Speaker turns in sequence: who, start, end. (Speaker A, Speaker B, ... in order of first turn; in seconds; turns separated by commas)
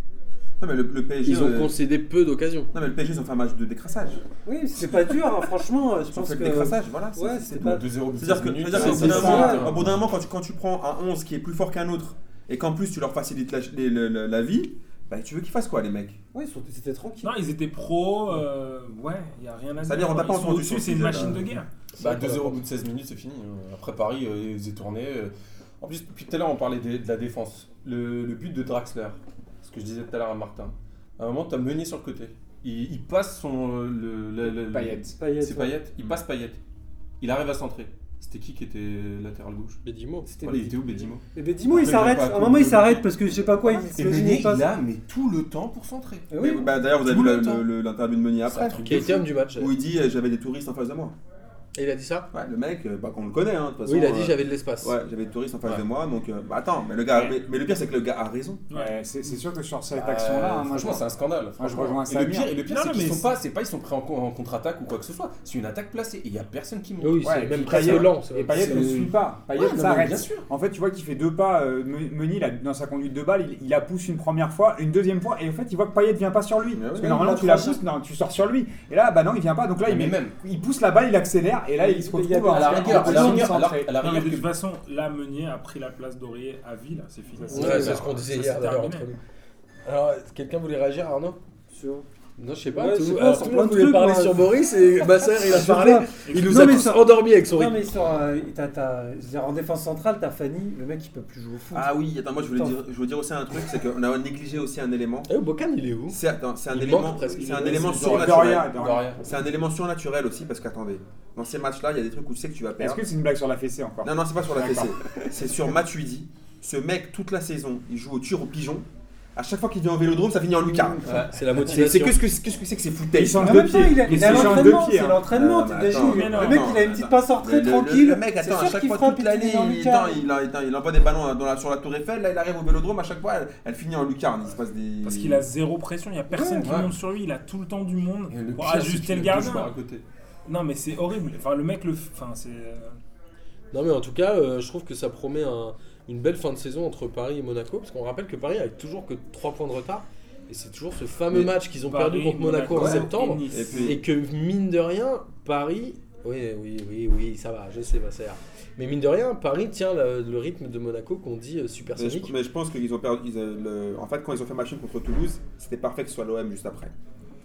Speaker A: 0.6-1.8, Speaker B: 1.2-2.7, Speaker A: 2.7-4.2, Speaker C: 4.5-7.9, Speaker A: 6.1-16.2, Speaker D: 7.6-10.0, Speaker C: 8.7-9.7, Speaker B: 8.8-9.4, Speaker C: 16.3-17.4, Speaker E: 17.2-21.7, Speaker A: 19.8-21.5, Speaker D: 22.0-36.6, Speaker B: 22.0-22.5, Speaker F: 34.7-35.1, Speaker C: 35.1-35.8, Speaker D: 37.2-43.0, Speaker B: 39.8-40.3, Speaker C: 40.3-44.7, Speaker D: 43.9-46.3, Speaker C: 46.3-46.8, Speaker A: 46.4-51.1, Speaker D: 47.0-47.6, Speaker D: 48.5-49.2, Speaker B: 48.7-49.7, Speaker B: 51.7-52.3, Speaker A: 52.3-58.6, Speaker B: 53.9-54.9, Speaker E: 58.7-59.0, Speaker F: 58.7-61.0, Speaker D: 59.9-70.4, Speaker F: 61.6-62.5, Speaker E: 62.6-63.3, Speaker B: 67.0-68.9, Speaker F: 67.2-83.9, Speaker A: 76.7-77.5, Speaker C: 77.1-77.8, Speaker D: 79.8-80.3, Speaker C: 81.8-83.5, Speaker D: 82.4-84.5, Speaker E: 83.9-89.1, Speaker C: 87.5-88.0, Speaker D: 87.5-88.0, Speaker B: 87.5-89.2, Speaker B: 89.8-91.4, Speaker C: 91.7-92.0, Speaker B: 92.4-97.9, Speaker C: 92.7-94.4, Speaker C: 95.2-102.7, Speaker E: 96.2-97.0, Speaker A: 101.7-105.3, Speaker B: 105.3-108.2, Speaker A: 106.1-113.0, Speaker D: 107.6-109.2, Speaker F: 107.9-109.1, Speaker F: 112.8-115.0, Speaker A: 114.0-124.6, Speaker F: 120.6-121.1, Speaker D: 121.0-121.4, Speaker B: 121.1-122.2, Speaker F: 123.1-125.2, Speaker C: 123.4-130.2, Speaker E: 124.1-124.6, Speaker A: 125.3-135.4, Speaker E: 125.9-126.7, Speaker E: 135.0-139.7, Speaker D: 136.6-136.9, Speaker D: 138.3-140.0, Speaker E: 140.4-143.0, Speaker B: 143.7-162.3, Speaker E: 151.9-154.0, Speaker A: 152.7-154.0, Speaker A: 161.9-166.9